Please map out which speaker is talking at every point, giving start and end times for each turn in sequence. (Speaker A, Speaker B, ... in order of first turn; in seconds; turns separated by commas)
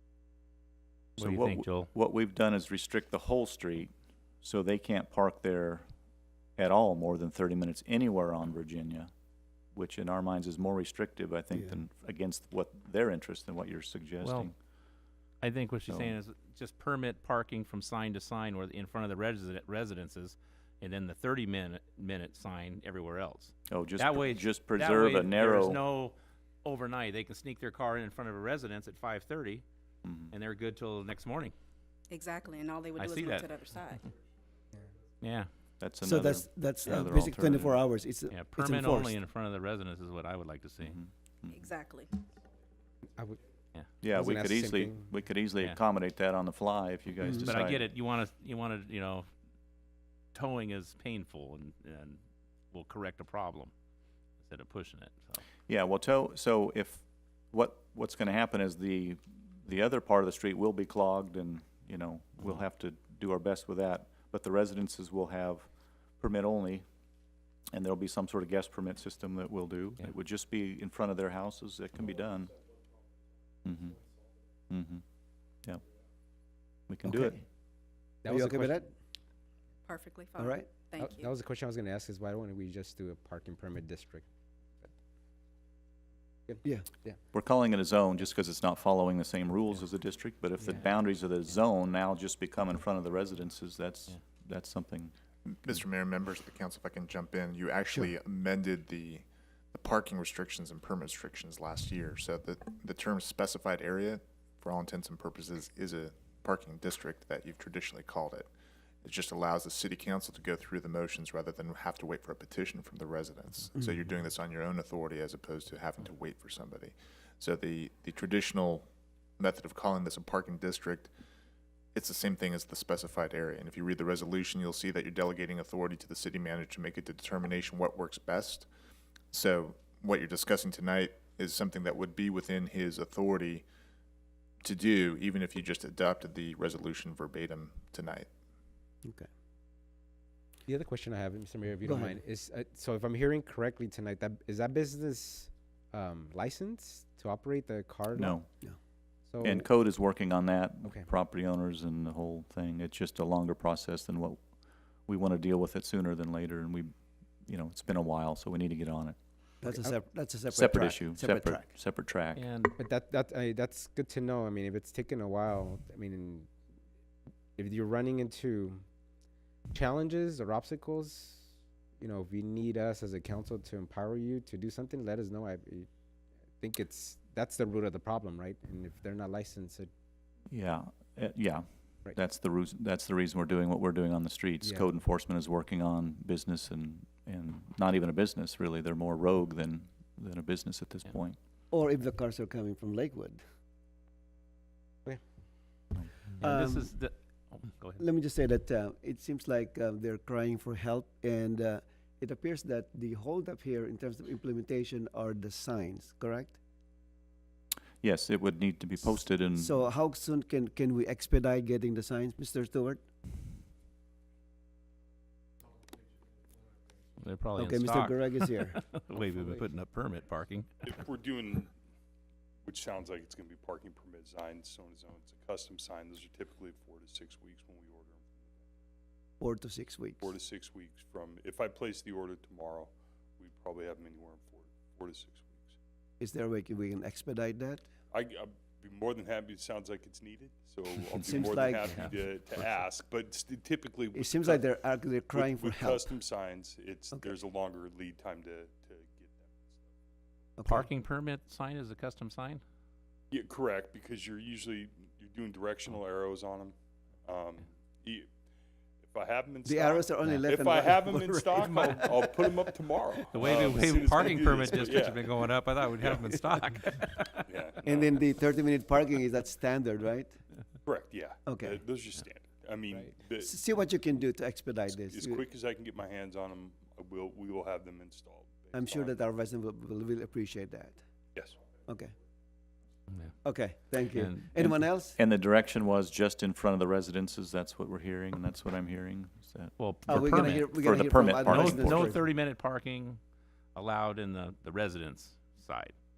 Speaker A: 1.2-3.9, Speaker B: 1.2-1.9, Speaker A: 4.4-5.9, Speaker A: 6.6-9.1, Speaker A: 9.7-14.6, Speaker C: 11.5-11.8, Speaker B: 14.2-14.5, Speaker B: 15.4-29.6, Speaker A: 15.9-16.1, Speaker A: 23.7-25.8, Speaker A: 30.1-30.3, Speaker B: 30.3-31.5, Speaker D: 32.1-34.0, Speaker B: 33.0-33.6, Speaker B: 35.2-35.5, Speaker A: 35.8-37.8, Speaker C: 36.0-39.1, Speaker B: 38.3-41.0, Speaker A: 40.8-41.6, Speaker D: 41.5-42.1, Speaker A: 44.0-47.9, Speaker E: 44.1-45.1, Speaker C: 47.2-47.5, Speaker B: 47.4-49.3, Speaker B: 50.3-52.2, Speaker B: 52.7-53.7, Speaker B: 54.4-55.4, Speaker A: 55.7-65.7, Speaker A: 66.2-66.9, Speaker A: 67.7-72.6, Speaker A: 73.7-74.0, Speaker A: 74.7-75.0, Speaker A: 76.9-77.4, Speaker C: 77.1-77.3, Speaker E: 78.2-78.9, Speaker C: 78.3-78.8, Speaker D: 79.9-81.3, Speaker C: 80.4-80.7, Speaker E: 81.0-84.2, Speaker E: 86.5-87.2, Speaker A: 87.3-95.1, Speaker F: 95.5-108.5, Speaker C: 97.9-98.1, Speaker F: 109.0-118.9, Speaker F: 119.4-121.1, Speaker F: 122.0-128.7, Speaker F: 129.3-133.7, Speaker F: 134.6-138.3, Speaker E: 140.7-148.5, Speaker C: 141.8-142.2, Speaker A: 148.2-148.5, Speaker E: 149.3-149.7, Speaker A: 149.4-154.4, Speaker A: 155.1-156.9, Speaker A: 157.5-159.2, Speaker C: 159.6-161.7, Speaker E: 159.7-160.0, Speaker A: 160.5-162.5, Speaker B: 162.3-162.8, Speaker E: 162.8-166.5, Speaker E: 167.6-168.8, Speaker E: 169.7-171.5, Speaker E: 172.0-175.9, Speaker E: 176.6-179.9, Speaker A: 180.5-191.4, Speaker E: 184.6-184.9, Speaker C: 191.7-193.4, Speaker B: 196.4-198.0, Speaker C: 196.4-196.9, Speaker C: 198.0-206.6, Speaker A: 208.0-209.8, Speaker C: 209.6-213.0, Speaker B: 217.2-220.7, Speaker C: 217.6-218.8, Speaker G: 220.8-221.7, Speaker G: 222.7-228.5, Speaker C: 229.4-230.3, Speaker G: 230.2-235.8, Speaker C: 236.2-237.8, Speaker G: 238.1-244.8, Speaker C: 241.2-242.1, Speaker C: 244.1-246.1, Speaker G: 245.3-249.8, Speaker C: 250.6-250.9, Speaker B: 250.7-252.6, Speaker G: 253.3-258.3, Speaker G: 259.1-265.5, Speaker C: 259.6-262.3, Speaker B: 263.3-267.5, Speaker G: 266.0-266.4, Speaker G: 267.4-268.2, Speaker C: 267.8-270.4, Speaker G: 270.9-273.6, Speaker C: 271.5-271.8, Speaker C: 273.4-275.4, Speaker G: 274.9-279.2, Speaker C: 278.7-281.0, Speaker C: 281.9-282.1, Speaker C: 283.4-285.2, Speaker B: 284.1-284.5, Speaker A: 284.6-292.1, Speaker B: 289.8-293.2, Speaker C: 290.1-292.2, Speaker B: 293.8-295.9